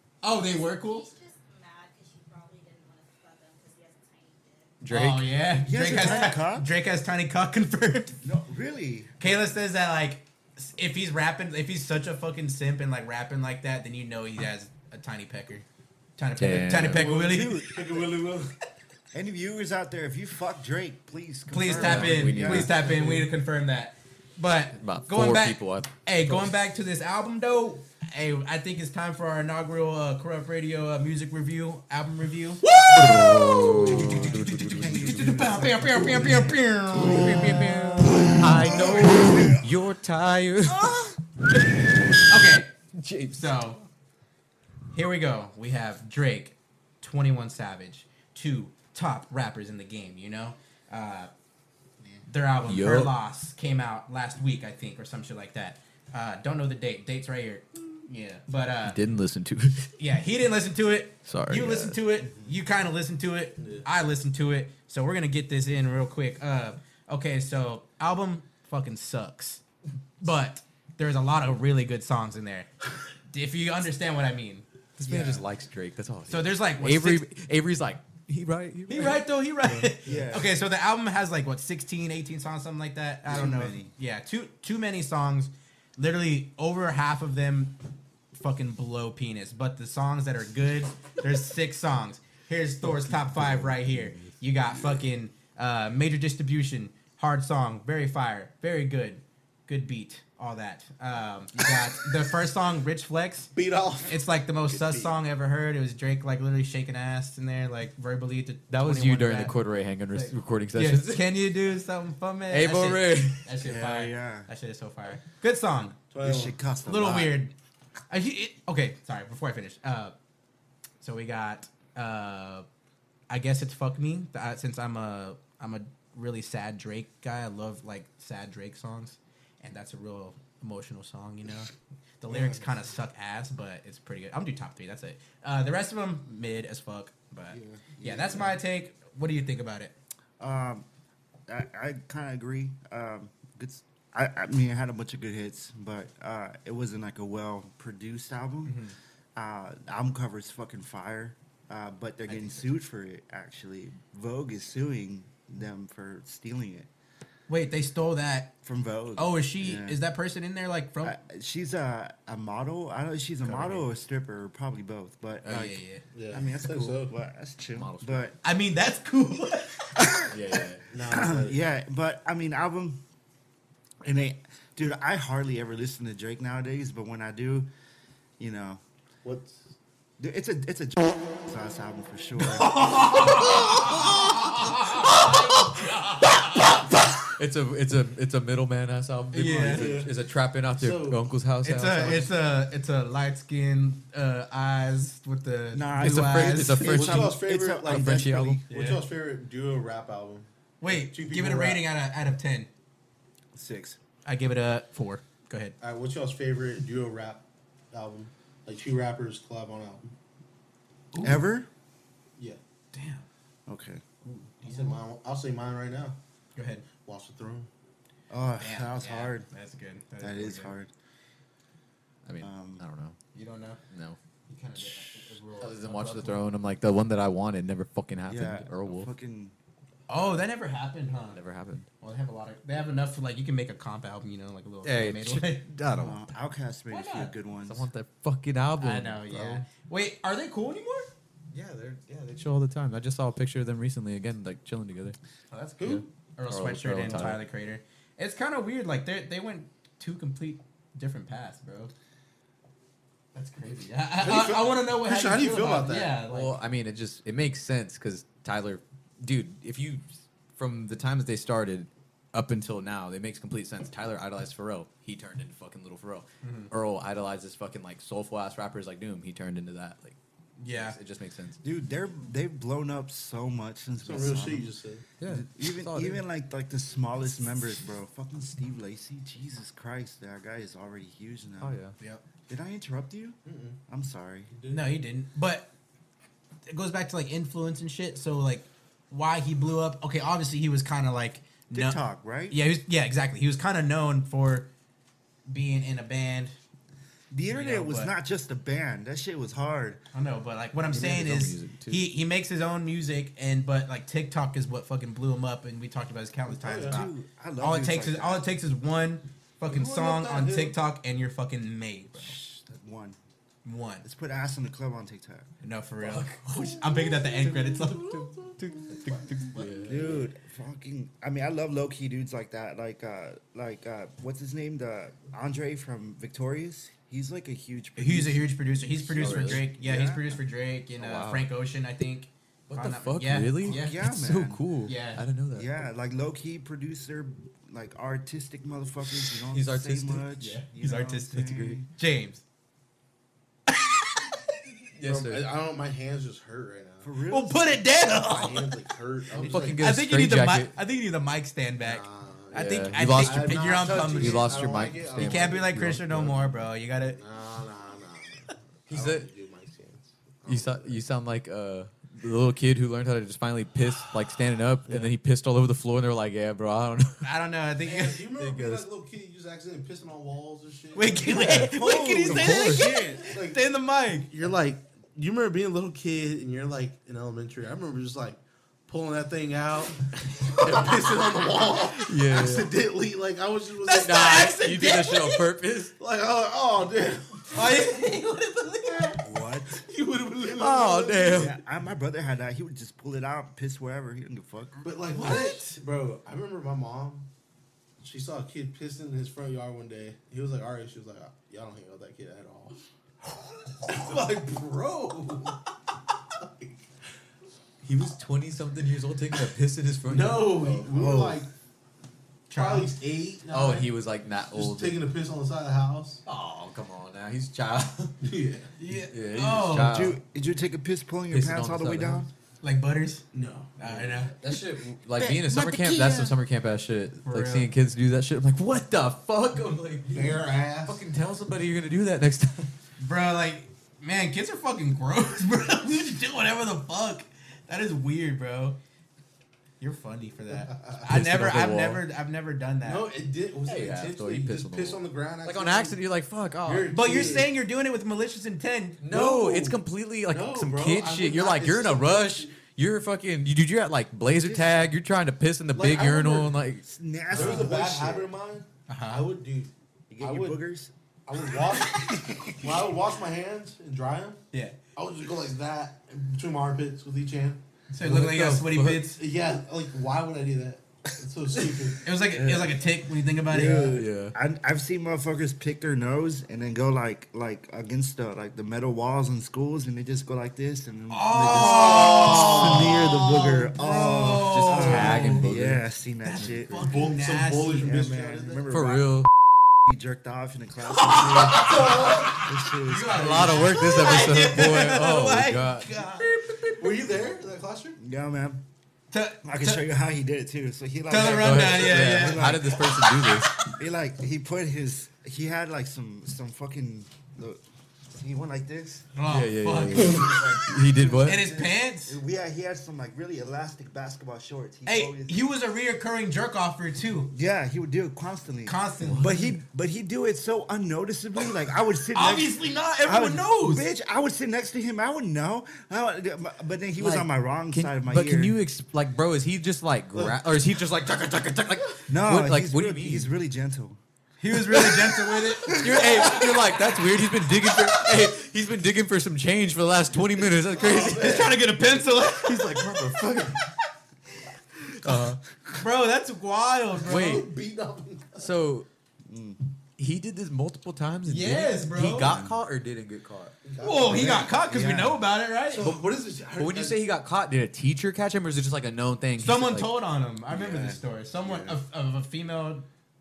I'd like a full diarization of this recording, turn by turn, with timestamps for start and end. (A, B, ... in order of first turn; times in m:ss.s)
0:00.2-0:01.1 A
0:00.2-0:04.7 B
0:04.8-0:05.4 C
0:04.9-0:08.2 A
0:05.6-0:06.7 D
0:08.2-0:09.2 D
0:09.2-0:15.7 A
0:16.2-0:17.7 A
0:16.4-0:17.1 C
0:16.9-0:18.5 E
0:17.0-0:18.5 D
0:19.1-0:23.0 D
0:21.5-0:34.4 A
0:21.7-0:23.2 C
0:22.9-0:23.2 E
0:24.8-0:26.5 C
0:32.9-0:35.5 C
0:33.2-0:36.6 D
0:34.9-0:38.3 A
0:37.0-0:41.0 C
0:38.1-0:39.7 D
0:42.3-0:42.7 A
0:43.0-0:43.7 C
0:43.3-0:43.8 A
0:44.9-0:51.3 A
0:52.3-0:59.0 A
0:52.6-0:53.1 C
0:58.8-0:59.9 C
1:00.0-1:09.6 A
1:01.3-1:02.0 C
1:02.2-1:02.6 D
1:03.6-1:03.9 E
1:10.2-1:12.7 A
1:13.3-1:14.7 A
1:15.0-1:19.9 C
1:15.0-1:15.4 D
1:16.3-1:17.3 A
1:18.9-1:27.8 A
1:20.0-1:20.6 D
1:23.2-1:23.9 D
1:28.3-1:43.5 A
1:32.8-1:34.4 C
1:34.7-1:35.0 D
1:43.5-1:45.2 E
1:44.1-1:49.6 A
1:48.7-1:51.4 C
1:50.1-1:56.0 A
1:52.5-1:53.4 C
1:53.6-1:54.5 D
1:56.1-1:56.6 E
1:56.2-1:57.4 D
1:56.9-1:57.5 A
1:58.1-2:00.2 A
2:01.0-2:02.7 A
2:03.3-2:11.7 A
2:12.2-2:20.0 A
2:12.3-2:12.6 D
2:17.5-2:18.6 D
2:20.4-2:20.9 D
2:21.5-2:28.8 D
2:28.6-2:29.0 A
2:29.4-2:36.9 D
2:32.3-2:32.7 A
2:37.5-2:38.5 A
2:38.6-2:40.0 D
2:39.2-2:41.2 A
2:41.0-2:48.4 D
2:45.4-2:46.0 A
2:46.1-2:47.1 E
2:47.8-2:48.3 C
2:48.4-2:49.9 A
2:50.0-2:53.0 D
2:50.3-2:50.8 C
2:50.9-2:51.6 E
2:54.0-2:57.7 D
2:58.4-2:58.8 D
2:59.2-2:59.7 E
3:00.2-3:03.1 D
3:02.4-3:05.9 A
3:05.0-3:12.2 C
3:09.3-3:10.0 A
3:09.5-3:10.1 E
3:10.8-3:11.2 E
3:11.6-3:16.9 A
3:11.9-3:12.3 E
3:15.7-3:18.6 D
3:16.0-3:18.6 C
3:16.8-3:21.8 E
3:18.7-3:19.0 A
3:20.8-3:22.7 A
3:23.5-3:24.0 D
3:24.2-3:25.8 A
3:25.8-3:30.1 E
3:31.1-3:31.4 A
3:31.2-3:31.7 D
3:32.9-3:33.2 A
3:33.7-3:34.0 D
3:34.2-3:35.0 A
3:34.6-3:36.2 E
3:36.6-3:36.9 A
3:37.0-3:37.7 E
3:38.3-3:39.5 D
3:38.6-3:40.8 A
3:40.2-3:40.9 D
3:42.2-3:43.2 C
3:42.4-3:42.8 D
3:43.3-3:43.8 A
3:43.9-3:44.2 C
3:44.5-3:46.5 A
3:45.6-3:49.1 C
3:48.3-3:49.6 D
3:50.1-3:51.4 A
3:51.3-3:51.9 C
3:52.0-3:55.7 A
3:54.8-3:56.3 C
3:55.9-3:57.9 D
3:56.9-3:57.4 A
3:57.6-3:59.6 C
3:58.8-4:01.1 A
4:01.5-4:05.2 C
4:05.5-4:11.9 A
4:05.8-4:06.1 E
4:05.8-4:07.4 C
4:13.4-4:16.6 A
4:14.2-4:16.2 E
4:16.3-4:20.0 C
4:20.6-4:30.2 C
4:26.4-4:26.7 A
4:30.6-4:31.0 A
4:30.7-4:31.6 C
4:31.6-4:34.7 D
4:34.0-4:35.0 E
4:35.2-4:36.2 C
4:35.2-4:41.8 D
4:41.6-4:42.0 C
4:42.5-4:43.4 D
4:43.4-4:43.8 E
4:43.9-4:44.5 D
4:44.5-4:44.9 E
4:44.7-4:45.7 A
4:46.7-4:54.7 A
4:51.7-4:52.6 D
4:55.5-4:56.6 A
4:57.3-5:00.0 D
4:57.5-4:58.1 A
5:00.1-5:12.4 A
5:00.9-5:02.0 C
5:06.5-5:07.0 E
5:06.8-5:08.4 D
5:09.7-5:10.8 E
5:12.2-5:13.2 D
5:13.6-5:14.0 A
5:14.0-5:15.5 D
5:15.6-5:18.2 A
5:16.0-5:20.1 C
5:18.4-5:20.2 E
5:19.0-5:19.7 A
5:19.8-5:30.4 D
5:28.0-5:34.0 A
5:29.2-5:29.6 C
5:31.0-5:31.5 C
5:32.7-5:35.7 C
5:33.6-5:34.6 D
5:34.9-5:35.2 A
5:35.5-5:41.9 D
5:39.5-5:40.3 C
5:40.4-5:42.4 A
5:43.7-5:44.2 A
5:45.0-5:45.4 C
5:45.0-5:47.1 E
5:47.0-5:47.8 D
5:47.3-5:48.7 A
5:48.2-5:49.8 E
5:49.4-5:50.8 C
5:49.4-5:54.5 A
5:51.8-5:56.0 E
5:52.5-5:56.7 C
5:55.2-5:57.2 A
5:57.0-6:01.0 E
5:58.9-5:59.3 C
6:00.5-6:07.2 C
6:04.9-6:05.1 E
6:07.2-6:08.2 A
6:07.8-6:11.7 E
6:08.4-6:08.9 C
6:11.0-6:14.3 A
6:11.5-6:13.3 D
6:12.2-6:12.9 C
6:13.3-6:13.6 E
6:14.3-6:24.5 E
6:20.6-6:21.2 C
6:22.0-6:22.7 C
6:23.8-6:25.4 A
6:24.0-6:25.9 C
6:26.0-6:27.9 E
6:27.5-6:29.2 A
6:29.2-6:29.8 D
6:29.8-6:31.6 E
6:30.5-6:31.5 C
6:31.3-6:34.8 D
6:34.8-6:37.3 E
6:35.1-6:35.8 A
6:38.0-6:42.7 E
6:43.8-6:45.6 E
6:46.4-6:46.7 E
6:47.8-6:50.9 C
6:50.1-6:51.5 E
6:50.9-6:51.4 D
6:52.5-6:52.9 A
6:52.5-6:53.9 E
6:53.5-6:55.0 C
6:54.5-6:56.2 E
6:56.3-6:58.2 C
6:58.2-6:58.7 E
6:58.8-7:00.0 A
6:59.1-7:00.2 C
6:59.8-7:02.3 D
7:01.3-7:02.2 C
7:02.6-7:03.2 A
7:03.3-7:04.2 E
7:03.8-7:04.3 A
7:04.4-7:12.7 C
7:05.1-7:06.4 D
7:07.2-7:07.7 A
7:10.1-7:11.0 E
7:13.0-7:18.8 A
7:19.8-7:23.1 A
7:20.5-7:21.0 E
7:21.0-7:22.0 C
7:22.8-7:26.0 E
7:23.6-7:27.0 C
7:26.6-7:27.5 E
7:26.9-7:29.0 A
7:29.0-7:37.8 C
7:29.1-7:32.6 E
7:34.3-7:34.9 D
7:35.8-7:36.5 E
7:36.8-7:38.3 D
7:37.3-7:40.6 E
7:38.9-7:39.3 A
7:40.1-7:40.9 D
7:41.3-7:44.4 E
7:42.0-7:42.8 D
7:45.0-7:47.6 E
7:47.9-7:49.2 A
7:48.0-7:49.1 C
7:49.1-7:52.0 E
7:52.0-7:54.0 A
7:52.3-7:52.8 D
7:53.4-8:06.9 D
7:53.9-7:54.3 C
8:01.1-8:05.5 A
8:01.5-8:03.0 C
8:04.5-8:05.8 C
8:06.2-8:07.8 A
8:06.9-8:08.8 E
8:07.8-8:09.0 D
8:08.7-8:09.3 C
8:09.8-8:13.6 D
8:11.0-8:16.9 A
8:11.6-8:12.4 E
8:13.1-8:15.9 C
8:16.8-8:18.0 E
8:18.0-8:18.6 D
8:19.1-8:19.8 A
8:19.4-8:22.9 D
8:21.1-8:22.6 A
8:21.2-8:23.5 C
8:23.8-8:29.1 D
8:29.2-8:30.4 A
8:29.3-8:31.4 C
8:29.9-8:35.5 D
8:31.2-8:32.2 A
8:34.9-8:37.3 A
8:37.3-8:48.6 D
8:38.7-8:39.6 A
8:42.1-8:43.9 A
8:47.0-8:53.3 C
8:52.1-8:54.0 D
8:54.4-8:55.9 A
8:55.7-8:56.1 D
8:55.7-9:01.5 C
9:00.6-9:01.6 E
9:01.2-9:02.9 A
9:02.4-9:03.6 C
9:05.0-9:05.4 C
9:05.8-9:07.4 A
9:07.0-9:07.5 C
9:07.1-9:08.5 E
9:08.4-9:08.9 C
9:09.2-9:09.6 D
9:10.0-9:13.6 C
9:11.3-9:12.4 A
9:12.2-9:12.6 D
9:13.6-9:14.6 E
9:13.8-9:15.9 A
9:14.1-9:15.2 D
9:15.7-9:17.0 E
9:16.6-9:19.9 C
9:19.4-9:22.9 A
9:20.5-9:21.8 D